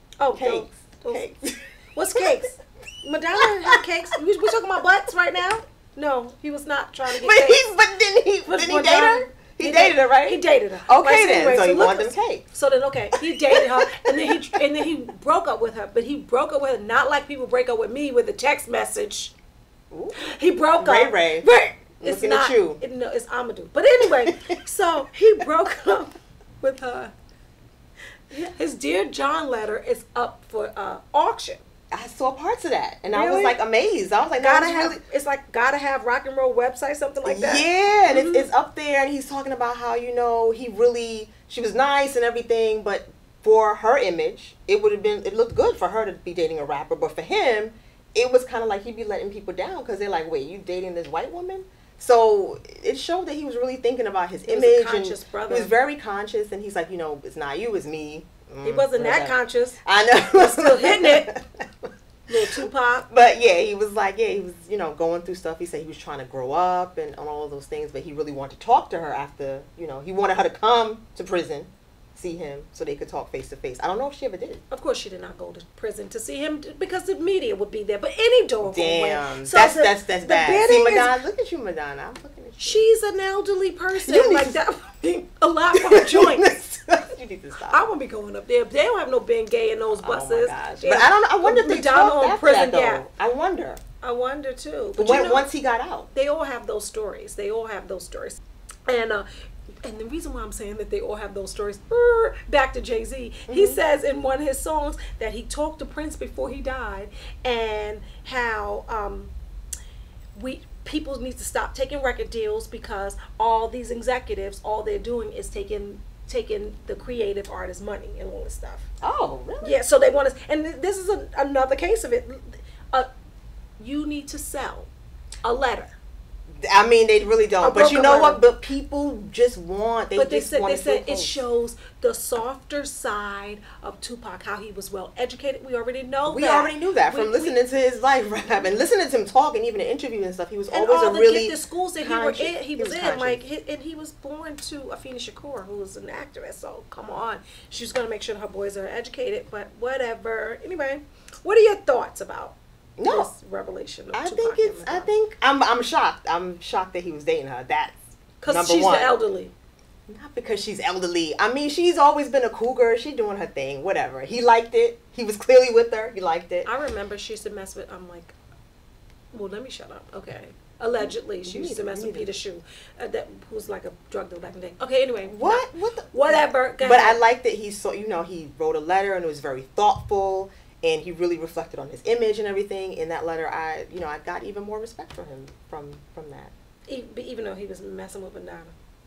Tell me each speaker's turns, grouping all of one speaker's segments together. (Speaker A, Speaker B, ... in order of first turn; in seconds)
Speaker A: 0.2-1.2, 1.9-7.7, 8.5-19.3, 20.2-27.1, 28.3-31.6, 33.1-33.6, 34.4-38.5, 54.5-55.7, 58.6-59.8, 60.3-61.3, 62.3-63.1, 74.7-81.2, 82.6-86.5, 87.7-93.1, 94.0-95.5, 96.1-99.3, 99.8-109.3, 110.3-118.9, 119.6-123.1, 123.8-124.9, 125.4-126.0, 127.6-128.4, 130.2-137.6, 140.7-155.1, 158.4-159.5, 166.7-168.3, 169.3-177.2, 186.9-188.8
Speaker B: 0.3-1.6, 3.4-3.8, 7.1-12.5, 13.1-14.9, 19.9-20.2, 20.8-21.5, 22.0-22.8, 24.0-24.6, 31.9-35.0, 37.2-61.9, 63.1-74.6, 78.6-82.8, 84.0-84.6, 85.7-87.8, 90.0-93.8, 95.0-96.1, 103.5-103.8, 119.0-119.8, 126.6-131.4, 136.3-143.4, 153.0-153.3, 154.1-159.2, 160.1-166.7, 171.0-172.3, 175.3-186.5